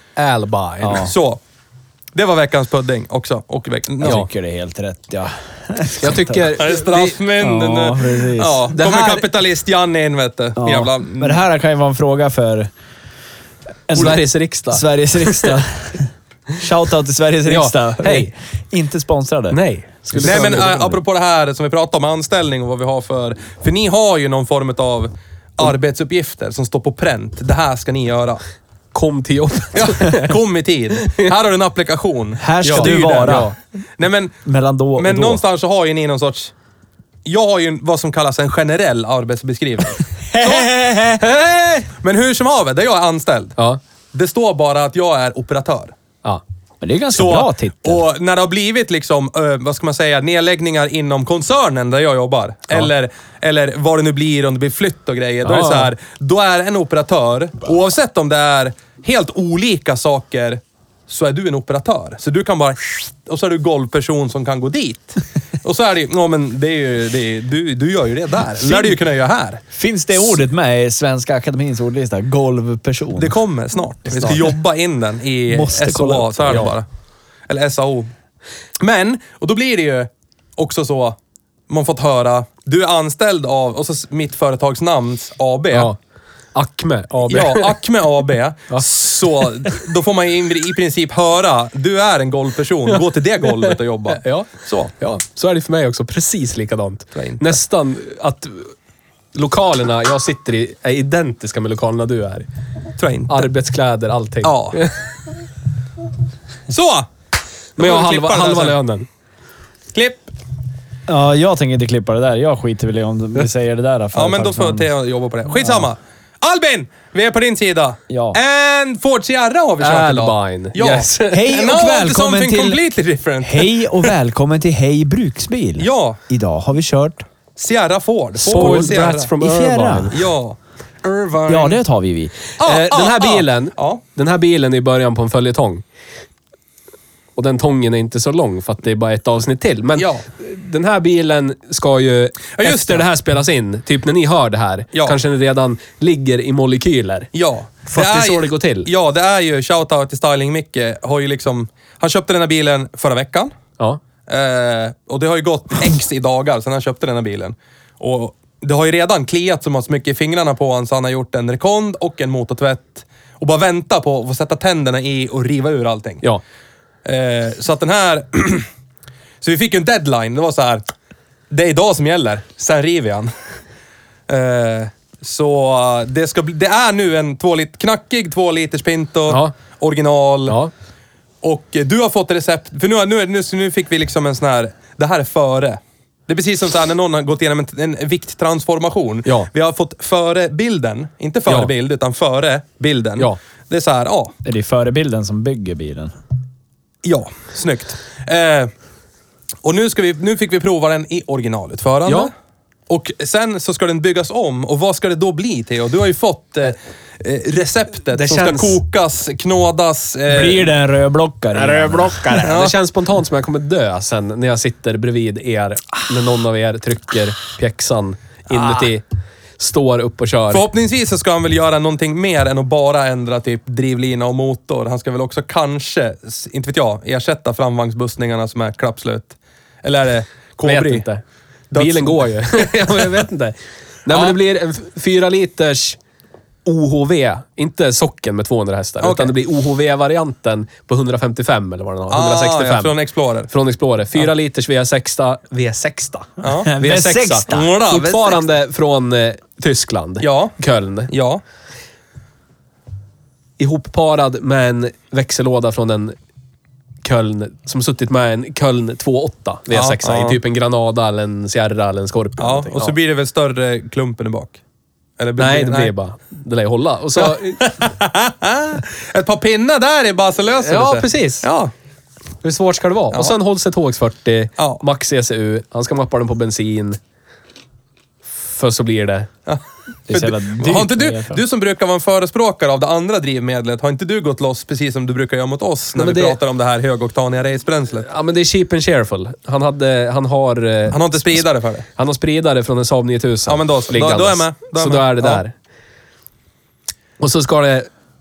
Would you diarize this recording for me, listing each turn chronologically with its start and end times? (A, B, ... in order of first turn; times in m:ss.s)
0:00.2-0:01.1 A
0:00.8-0:01.1 B
0:01.0-0:01.4 C
0:02.1-0:04.2 C
0:04.0-0:06.5 B
0:06.0-0:07.2 A
0:06.6-0:11.4 C
0:07.4-0:08.7 B
0:08.7-0:09.2 A
0:10.6-0:12.7 B
0:13.9-0:19.6 B
0:13.9-0:15.6 A
0:17.4-0:18.3 A
0:19.5-0:20.8 A
0:20.1-0:21.0 B
0:20.2-0:28.4 C
0:28.9-0:30.4 A
0:29.7-0:34.4 C
0:31.0-0:31.3 A
0:32.4-0:33.5 B
0:32.6-0:33.5 A
0:34.4-0:35.4 B
0:35.0-0:36.5 C
0:37.2-0:40.7 C
0:40.3-0:41.2 B
0:41.2-0:41.9 A
0:42.0-0:43.6 C
0:44.1-0:45.9 C
0:46.8-0:48.0 B
0:47.1-1:09.6 C
0:55.4-0:55.9 A
1:08.6-1:08.9 B
1:09.7-1:13.4 B
1:13.2-1:16.8 C
1:15.5-1:16.7 B
1:17.5-1:18.1 C
1:18.8-1:21.2 C
1:21.7-1:25.9 C
1:25.7-1:26.0 A
1:26.5-1:27.8 A
1:27.3-1:34.9 C
1:32.9-1:38.7 A
1:37.1-1:37.6 C
1:39.3-1:42.5 A
1:43.0-1:43.5 C
1:43.3-1:45.1 A
1:44.4-1:44.8 C
1:46.7-1:47.1 C
1:47.8-1:48.8 C
1:47.8-1:49.1 A
1:49.9-1:50.3 C
1:51.1-1:54.9 B
1:54.1-2:04.1 C
1:55.5-1:55.9 B
1:58.1-1:58.4 B
1:59.8-2:01.5 A
2:01.3-2:02.8 B
2:03.4-2:07.2 B
2:05.8-2:06.2 C
2:07.6-2:09.3 C
2:08.4-2:10.1 B
2:08.4-2:10.2 A
2:10.1-2:11.8 C
2:11.5-2:12.3 B
2:12.6-2:14.0 C
2:12.6-2:15.8 A
2:17.4-2:27.3 A
2:20.0-2:20.2 C
2:22.5-2:23.0 C
2:27.3-2:33.5 C
2:27.9-2:28.9 A
2:34.3-2:46.3 C
2:47.0-2:48.7 C
2:49.4-2:50.9 C
2:51.5-2:53.3 C
2:54.3-3:00.6 C
2:59.3-2:59.5 A
3:00.5-3:00.7 A
3:01.4-3:14.3 C
3:11.5-3:11.7 A
3:14.4-3:16.1 B
3:17.0-3:18.7 C
3:19.6-3:22.3 C
3:22.0-3:22.3 A
3:22.9-3:30.7 C
3:28.1-3:28.8 A
3:30.3-3:32.4 B
3:31.5-3:39.0 A
3:32.4-3:32.8 C
3:39.6-3:40.6 A
3:40.5-3:51.1 C
3:50.6-3:56.0 A
3:51.7-3:52.7 C
3:54.1-3:54.4 C
3:56.6-4:02.9 A
3:59.0-3:59.3 C
4:02.1-4:03.5 C
4:03.5-4:11.1 A
4:06.4-4:08.4 C
4:06.4-4:07.7 B
4:10.2-4:10.6 C
4:11.1-4:11.4 C
4:13.6-4:16.1 A
4:17.0-4:23.0 A
4:19.7-4:20.4 C
4:22.4-4:24.6 C
4:25.2-4:25.9 C
4:25.4-4:27.9 A
4:27.2-4:31.7 C
4:30.6-4:31.5 A
4:32.4-4:37.0 A
4:38.2-4:39.3 A
4:39.4-4:48.1 C
4:40.1-4:41.4 B
4:45.9-4:46.4 A
4:48.0-4:51.4 A
4:50.9-4:51.8 C
4:52.0-4:55.5 A
4:53.5-4:55.4 C
4:57.2-4:57.9 A